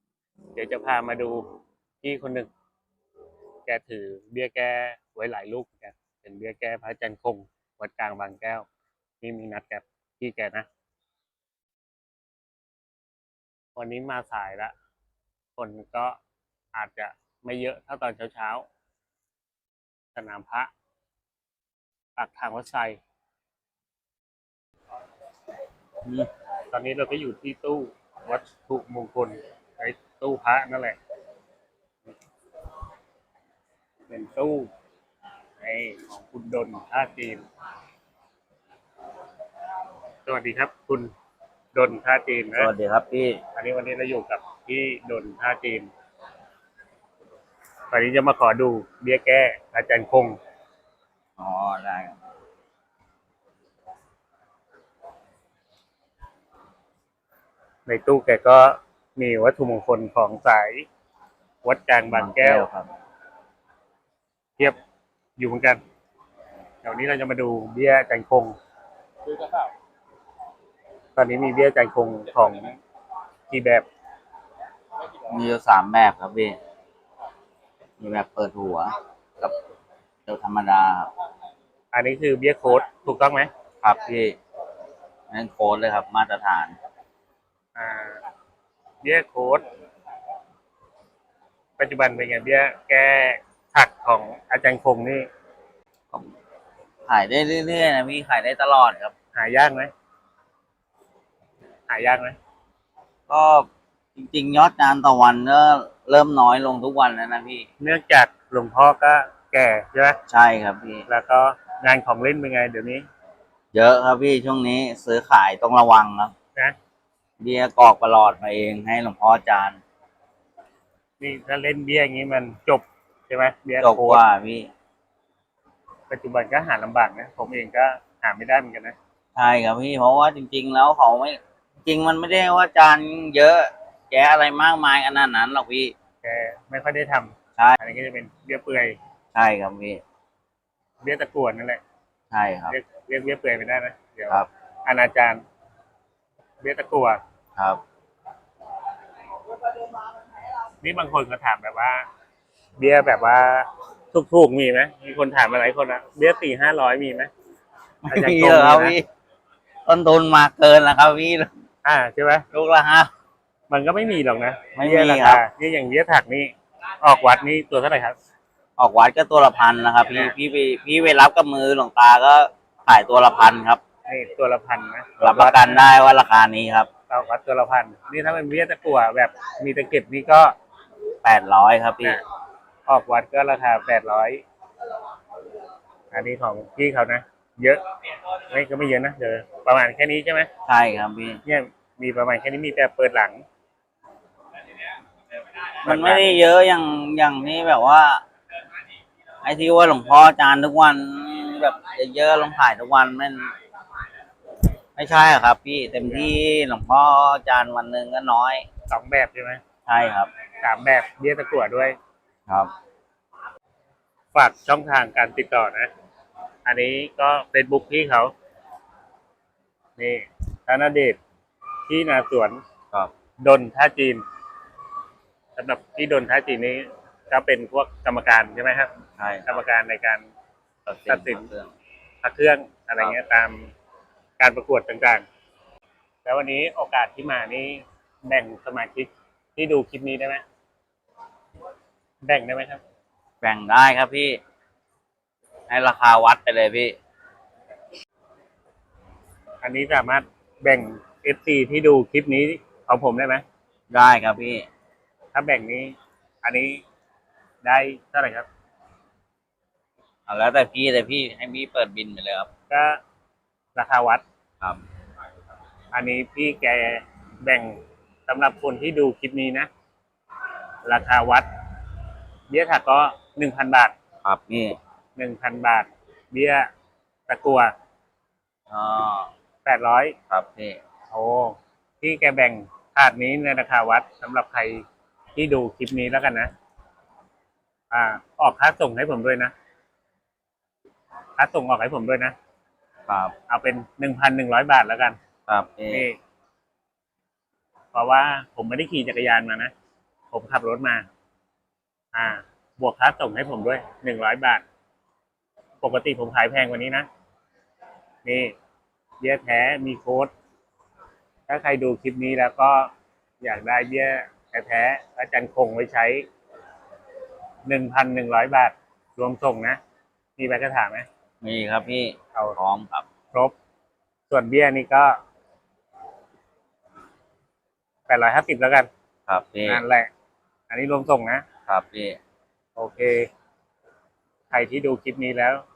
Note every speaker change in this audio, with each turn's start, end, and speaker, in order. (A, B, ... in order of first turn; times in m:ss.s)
0:00.6-0:01.4 A
0:02.0-0:02.5 A
0:03.7-0:08.7 A
0:09.2-0:10.6 A
0:13.8-0:14.7 A
0:15.6-0:16.2 A
0:16.7-0:18.6 A
0:20.1-0:20.7 A
0:22.2-0:23.0 A
0:26.7-0:31.0 A
0:34.1-0:34.7 A
0:35.6-0:37.4 A
0:40.2-0:41.1 A
0:41.7-0:42.7 A
0:42.6-0:43.4 B
0:43.5-0:45.9 A
0:47.9-0:50.4 A
0:51.4-0:52.2 B
0:57.8-1:00.9 A
1:01.6-1:02.7 A
1:02.1-1:02.9 B
1:05.4-1:05.8 A
1:06.8-1:08.5 A
1:11.2-1:12.8 A
1:13.5-1:13.8 A
1:15.2-1:16.6 B
1:18.0-1:19.5 B
1:20.2-1:21.1 B
1:21.9-1:23.5 A
1:23.8-1:24.4 B
1:25.3-1:26.8 B
1:27.8-1:28.2 A
1:29.0-1:29.6 A
1:31.8-1:35.3 A
1:37.1-1:39.1 B
1:39.3-1:39.9 A
1:41.9-1:42.4 A
1:43.3-1:47.7 B
1:47.8-1:50.2 A
1:50.3-1:51.0 B
1:51.1-1:53.0 A
1:53.7-1:56.3 B
1:57.4-1:59.8 B
2:01.2-2:04.2 A
2:03.8-2:04.7 B
2:06.1-2:09.0 A
2:09.4-2:15.9 B
2:16.2-2:19.0 A
2:19.3-2:20.0 B
2:21.0-2:21.8 A
2:22.3-2:22.7 B
2:22.7-2:25.4 A
2:26.6-2:27.2 A
2:27.6-2:27.8 B
2:30.8-2:32.0 A
2:32.8-2:37.3 A
2:38.0-2:39.0 B
2:38.1-2:39.0 A
2:39.8-2:41.5 B
2:41.8-2:42.4 A
2:42.5-2:43.1 B
2:43.7-2:48.2 A
2:44.7-2:45.4 B
2:48.8-2:53.8 B
2:54.1-2:55.9 A
2:55.2-2:56.9 B
2:57.1-3:00.5 A
3:01.2-3:02.2 B
3:02.9-3:04.4 A
3:06.1-3:07.8 A
3:08.5-3:10.5 A
3:10.6-3:11.4 B
3:11.4-3:13.4 A
3:15.8-3:16.4 A
3:15.8-3:18.2 B
3:19.4-3:23.5 B
3:25.0-3:28.6 B
3:26.0-3:26.3 A
3:28.9-3:29.6 A
3:29.9-3:30.3 B
3:30.6-3:32.0 A
3:34.3-3:35.9 A
3:36.6-3:38.3 A
3:40.0-3:41.2 A
3:41.9-3:42.6 A
3:43.4-3:44.2 A
3:45.6-3:48.9 A
3:49.2-3:49.5 B
3:49.4-3:50.2 A
3:50.9-3:51.7 B
3:51.0-3:51.5 A
3:52.2-3:53.7 A
3:54.4-3:55.2 A
3:56.2-4:00.4 A
4:02.2-4:02.8 A
4:03.4-4:04.4 B
4:05.7-4:07.0 B
4:09.6-4:13.4 A
4:13.9-4:14.7 B
4:15.3-4:16.8 A
4:17.6-4:18.5 A
4:20.3-4:22.5 B
4:22.7-4:23.0 A
4:23.8-4:24.2 A
4:25.9-4:29.7 A
4:30.8-4:31.5 A
4:32.5-4:33.9 A
4:34.2-4:34.8 B
4:35.2-4:36.7 A
4:37.3-4:37.7 A
4:38.7-4:39.3 B
4:39.6-4:40.1 A
4:40.3-4:40.8 B
4:41.1-4:44.8 A
4:45.3-4:46.5 A
4:47.9-4:49.5 A
4:51.4-4:52.3 A
4:53.1-4:53.3 B
4:53.5-4:55.2 A
4:55.5-4:56.1 B
4:55.9-4:56.2 A
4:57.9-4:59.7 A
5:00.3-5:01.0 A
5:02.1-5:04.6 A
5:05.8-5:07.1 A
5:08.2-5:08.5 A
5:09.2-5:10.3 A
5:11.5-5:16.2 A
5:17.6-5:19.8 A
5:20.4-5:21.1 A
5:21.4-5:23.0 B
5:24.3-5:25.2 A
5:28.1-5:28.9 A
5:29.3-5:29.8 B
5:29.7-5:30.1 A
5:30.7-5:31.4 A
5:31.7-5:32.2 B
5:32.8-5:33.3 A
5:34.5-5:35.6 A